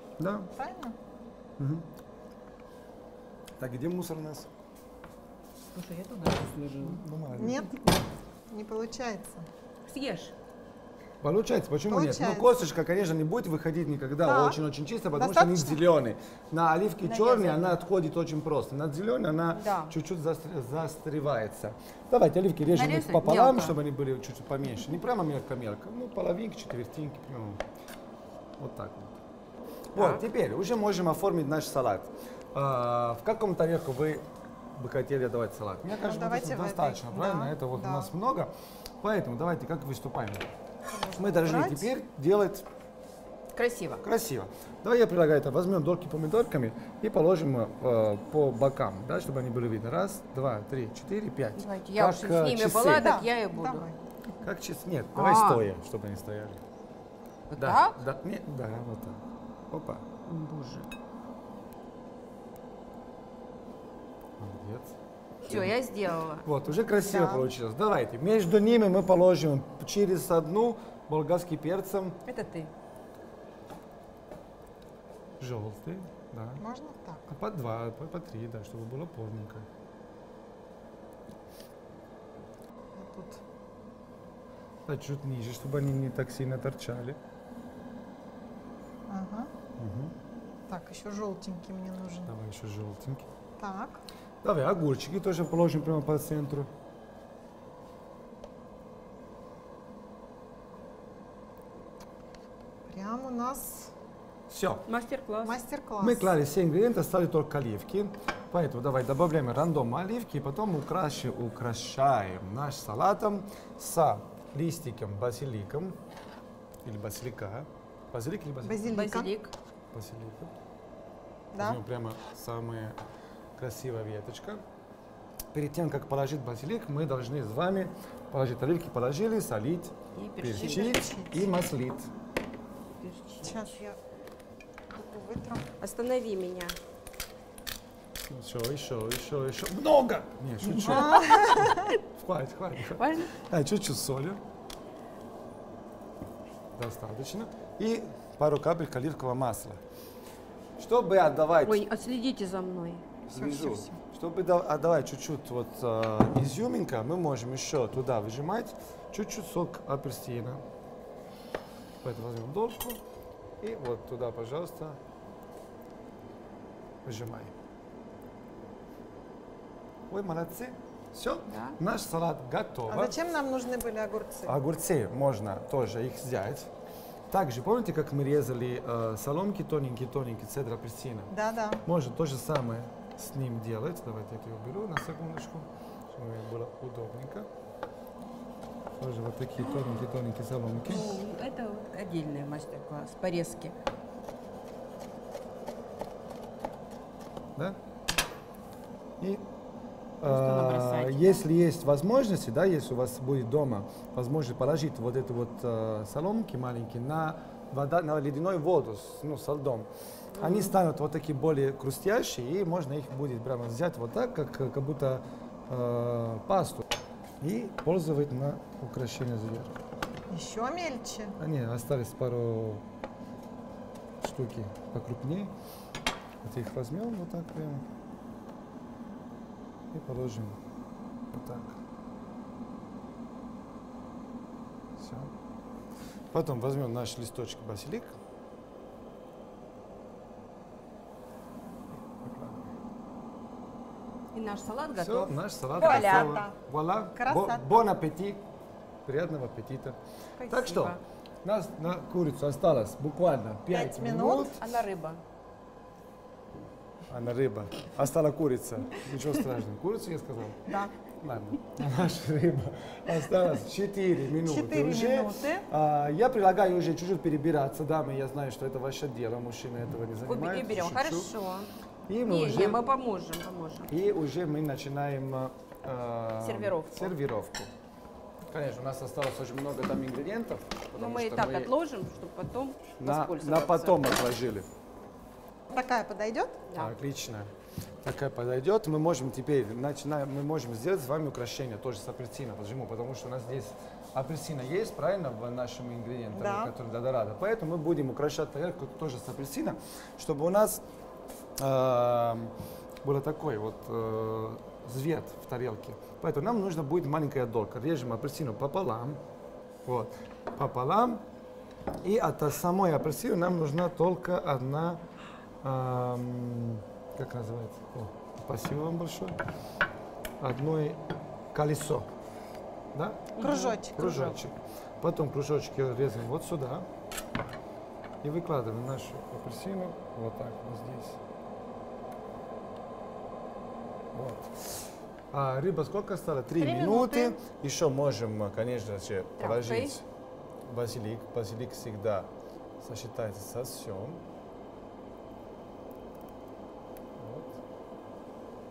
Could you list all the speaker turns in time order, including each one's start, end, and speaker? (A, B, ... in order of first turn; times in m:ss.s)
0:00.2-0:00.5 A
0:00.6-0:01.0 B
0:01.6-0:01.8 A
0:03.6-0:04.5 A
0:05.7-0:07.0 C
0:06.7-0:07.8 A
0:07.3-0:09.5 B
0:09.8-0:10.3 C
0:11.2-0:27.6 A
0:11.9-0:12.5 B
0:14.2-0:14.6 B
0:15.1-0:15.8 B
0:17.0-0:17.8 C
0:19.5-0:20.0 C
0:22.7-0:23.8 C
0:28.6-0:29.2 A
0:29.9-0:40.5 A
0:29.9-0:30.2 C
0:36.0-0:38.1 B
0:40.9-0:41.9 B
0:41.2-0:42.6 A
0:43.5-0:44.0 C
0:44.0-0:53.2 A
0:51.6-0:53.9 C
0:53.0-0:54.0 B
0:54.4-0:56.6 A
0:55.1-0:55.7 C
0:57.5-0:58.0 C
0:57.6-1:00.0 A
1:00.2-1:00.9 C
1:04.4-1:05.0 A
1:05.4-1:06.5 C
1:05.5-1:05.8 A
1:06.4-1:12.2 A
1:06.9-1:07.5 B
1:12.2-1:12.7 C
1:15.4-1:16.6 A
1:16.6-1:17.2 B
1:17.3-1:19.7 A
1:22.9-1:23.4 B
1:24.8-1:27.2 A
1:29.1-1:29.5 B
1:29.8-1:30.1 A
1:30.7-1:32.3 B
1:32.2-1:33.3 A
1:33.6-1:34.0 B
1:34.4-1:36.7 A
1:42.9-1:43.9 B
1:44.5-1:44.8 A
1:44.9-1:45.6 C
1:45.4-1:46.3 B
1:46.0-1:56.0 A
1:56.8-1:58.9 A
1:58.6-1:59.3 B
1:58.8-1:59.5 C
1:59.9-2:00.5 A
2:01.5-2:01.8 B
2:01.6-2:03.0 A
2:03.6-2:04.6 A
2:05.5-2:12.1 A
2:10.1-2:11.1 C
2:10.6-2:11.4 B
2:13.0-2:13.8 C
2:13.4-2:14.0 B
2:14.9-2:15.6 B
2:15.8-2:16.8 C
2:18.3-2:24.4 A
2:20.6-2:21.7 C
2:20.8-2:21.9 B
2:22.9-2:23.3 C
2:26.7-2:29.8 A
2:30.8-2:31.8 A
2:31.6-2:33.0 C
2:33.3-2:40.6 A
2:33.3-2:34.0 B
2:42.0-2:43.0 A
2:43.6-2:45.0 A
2:47.0-2:47.5 A
2:50.1-2:53.2 A
2:51.5-2:51.8 C
2:52.9-2:54.6 B
2:54.4-2:56.7 A
2:57.3-3:01.3 A
3:01.3-3:01.8 B
3:01.8-3:07.5 A
3:09.0-3:11.1 A
3:10.8-3:13.7 C
3:19.2-3:19.4 A
3:20.2-3:36.8 A
3:20.2-3:21.4 C
3:30.3-3:30.7 C
3:37.4-3:39.7 A
3:40.3-3:41.4 B
3:41.4-3:42.8 A
3:44.2-3:45.5 A
3:46.4-3:47.8 A
3:49.9-3:50.6 A
3:51.3-3:51.8 A
3:55.0-3:55.3 A
3:56.3-3:58.1 A
4:02.0-4:02.6 A
4:04.3-4:06.4 C
4:05.0-4:08.4 A
4:05.8-4:06.6 B
4:07.1-4:07.7 B
4:09.0-4:14.6 A
4:10.4-4:11.0 C
4:13.7-4:14.5 B
4:14.6-4:15.2 C
4:17.1-4:31.3 A
4:20.6-4:20.9 B
4:24.4-4:25.7 B
4:30.2-4:31.7 C
4:32.1-4:32.9 A
4:32.2-4:33.9 C
4:33.9-4:37.7 A
4:36.4-4:37.1 C
4:38.4-4:41.7 A
4:41.0-4:44.1 C
4:43.0-4:44.7 A
4:45.7-4:46.6 B
4:46.7-4:47.5 A
4:48.0-5:00.8 A
4:56.3-4:56.7 B
5:01.6-5:09.2 A
5:09.8-5:11.2 A
5:12.0-5:15.0 A
5:15.6-5:19.4 A
5:20.4-5:22.1 A
5:22.9-5:23.4 A
5:23.4-5:23.8 C
5:23.4-5:24.4 B
5:23.9-5:26.9 A
5:28.2-5:31.2 A
5:34.1-5:40.0 A
5:36.6-5:37.3 B
5:39.4-5:40.0 C
5:40.6-5:44.2 A
5:47.2-5:47.6 A